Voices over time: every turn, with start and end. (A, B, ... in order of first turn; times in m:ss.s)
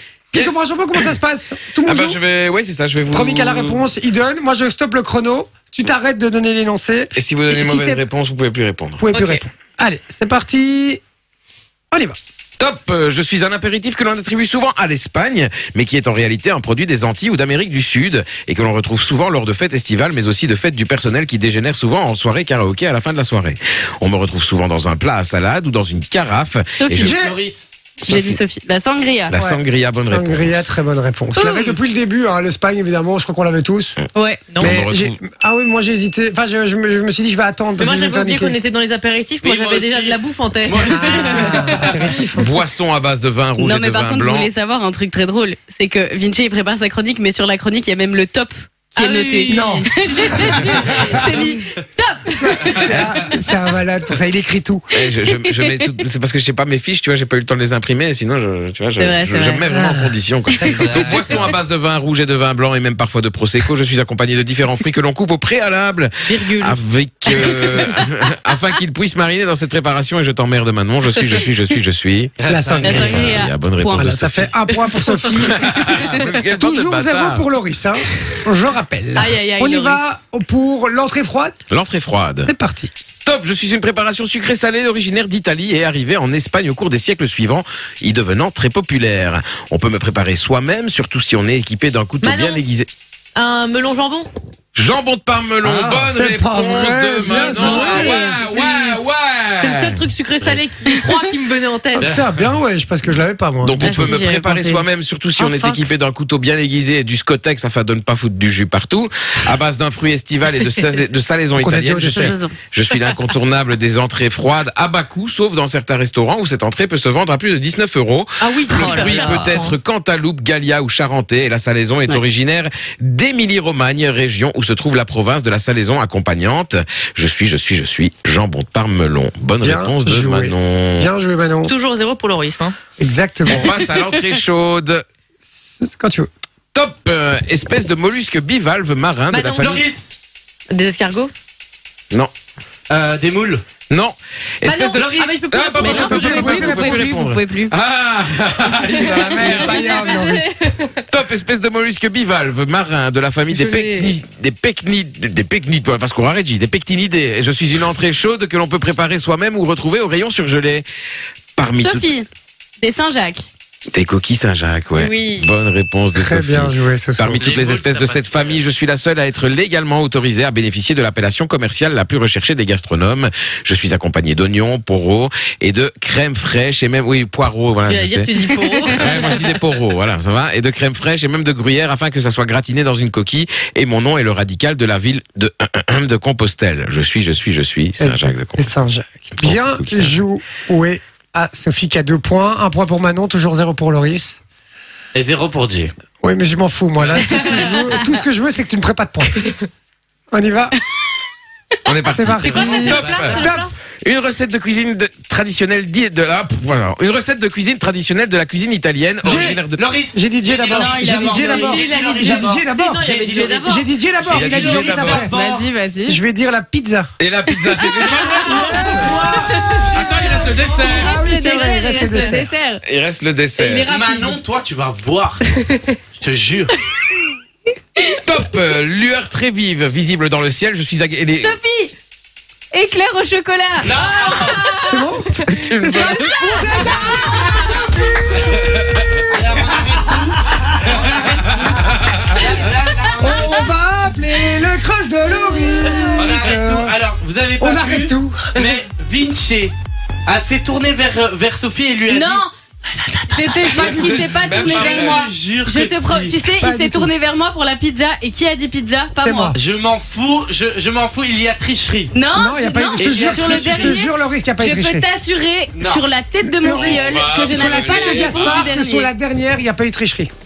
0:00.3-0:02.2 A
0:00.3-0:00.6 B
0:01.8-0:03.8 B
0:03.1-0:08.0 A
0:07.2-0:09.0 B
0:09.0-0:11.0 A
0:09.1-0:09.4 C
0:11.9-0:12.2 A
0:12.6-0:27.2 B
0:26.8-0:27.2 D
0:27.0-0:27.3 A
0:27.0-0:27.6 E
0:28.0-0:29.3 D
0:28.0-0:28.4 B
0:29.3-0:30.7 B
0:29.4-0:34.0 A
0:31.4-0:31.8 D
0:34.1-0:34.5 D
0:34.5-0:34.8 C
0:34.6-0:38.6 A
0:34.6-0:35.2 B
0:37.8-0:41.9 C
0:39.4-0:42.1 E
0:40.9-0:42.5 A
0:41.2-0:41.6 D
0:42.4-0:44.5 B
0:43.6-0:53.0 D
0:49.0-0:50.5 C
0:49.5-0:51.4 A
0:52.5-0:54.9 A
0:52.9-0:53.2 B
0:54.9-1:14.5 B
0:55.4-0:55.8 D
0:59.0-0:59.6 D
0:59.7-1:00.2 A
1:00.7-1:01.5 E
1:06.3-1:06.8 C
1:07.2-1:07.6 D
1:07.5-1:07.8 C
1:12.4-1:13.1 E
1:12.5-1:13.3 A
1:12.8-1:14.3 D
1:13.9-1:21.6 A
1:15.4-1:17.5 B
1:19.2-1:19.9 D
1:21.7-1:22.5 B
1:22.4-1:22.9 A
1:23.2-1:32.9 B
1:32.2-1:32.6 C
1:33.4-1:34.3 C
1:34.7-1:40.6 B
1:35.7-1:38.4 A
1:37.2-1:39.0 C
1:39.6-1:42.2 C
1:41.9-1:44.2 A
1:42.0-1:42.4 E
1:43.6-2:11.1 B
1:43.8-1:44.9 D
1:45.4-1:45.7 C
1:51.6-1:52.3 A
1:52.1-1:53.1 D
1:58.4-1:59.8 C
2:09.6-2:11.7 A
2:11.6-2:12.8 C
2:13.0-2:13.8 A
2:13.4-2:15.0 B
2:15.8-2:16.3 A
2:16.7-2:19.8 B
2:19.3-2:19.8 C
2:19.6-2:20.1 E
2:20.7-2:21.3 C
2:22.9-2:23.6 E
2:23.9-2:30.0 B
2:24.6-2:27.0 C
2:24.9-2:26.2 E
2:25.8-2:27.7 D
2:25.8-2:27.0 A
2:28.7-2:30.9 C
2:29.3-2:30.5 A
2:29.9-2:30.2 D
2:31.0-2:40.8 B
2:33.5-2:34.1 C
2:41.6-2:42.1 B
2:41.8-2:42.3 D
2:42.8-2:43.4 D
2:43.9-2:58.3 B
2:45.0-2:45.5 D
2:46.1-2:47.4 A
2:47.4-2:48.6 E
2:57.9-2:59.4 C
2:58.7-2:59.4 D
2:58.9-3:08.7 B
3:08.0-3:14.4 A
3:09.4-3:10.2 B
3:15.1-3:15.9 E
3:16.2-3:19.6 A
3:17.0-3:17.8 E
3:17.2-3:17.7 C
3:20.3-3:20.8 A
3:21.8-3:23.5 B
3:22.1-3:23.6 A
3:22.3-3:23.7 C
3:22.5-3:23.5 E
3:24.0-3:29.8 B
3:29.2-3:35.7 E
3:29.2-3:29.6 A
3:30.1-3:33.0 A
3:30.7-3:31.8 D
3:31.3-3:33.9 C
3:33.6-3:35.3 A
3:34.2-3:35.3 B
3:35.2-3:36.2 C
3:36.0-3:37.1 A
3:37.2-3:39.1 B
3:37.5-3:38.3 D
3:38.2-3:42.5 A
3:38.7-3:41.0 E
3:39.9-3:41.2 B
3:40.8-3:42.8 C
3:41.3-3:42.5 D
3:42.8-3:43.9 B
3:43.6-3:44.4 C
3:43.8-3:45.5 E
3:46.2-3:46.7 E
3:48.2-3:51.6 B
3:51.4-3:51.9 D
3:52.7-3:55.4 D
3:53.8-3:54.8 E
3:54.8-3:59.4 A
3:55.4-3:56.2 B
3:56.0-3:57.8 D
3:58.8-3:59.2 B
3:59.3-4:03.7 E
4:03.1-4:07.0 A
4:06.2-4:09.7 E
4:07.6-4:08.5 A
4:10.2-4:16.4 E
4:12.1-4:12.5 D
4:13.3-4:19.6 D
4:13.7-4:14.4 A
4:14.2-4:15.3 B
4:16.6-4:17.1 A
4:19.2-4:19.6 A
4:19.5-4:22.1 E
4:22.1-4:29.1 D
4:22.3-4:25.0 A
4:22.9-4:24.0 E
4:25.7-4:26.0 E
4:26.4-4:30.3 A
4:26.7-4:28.7 B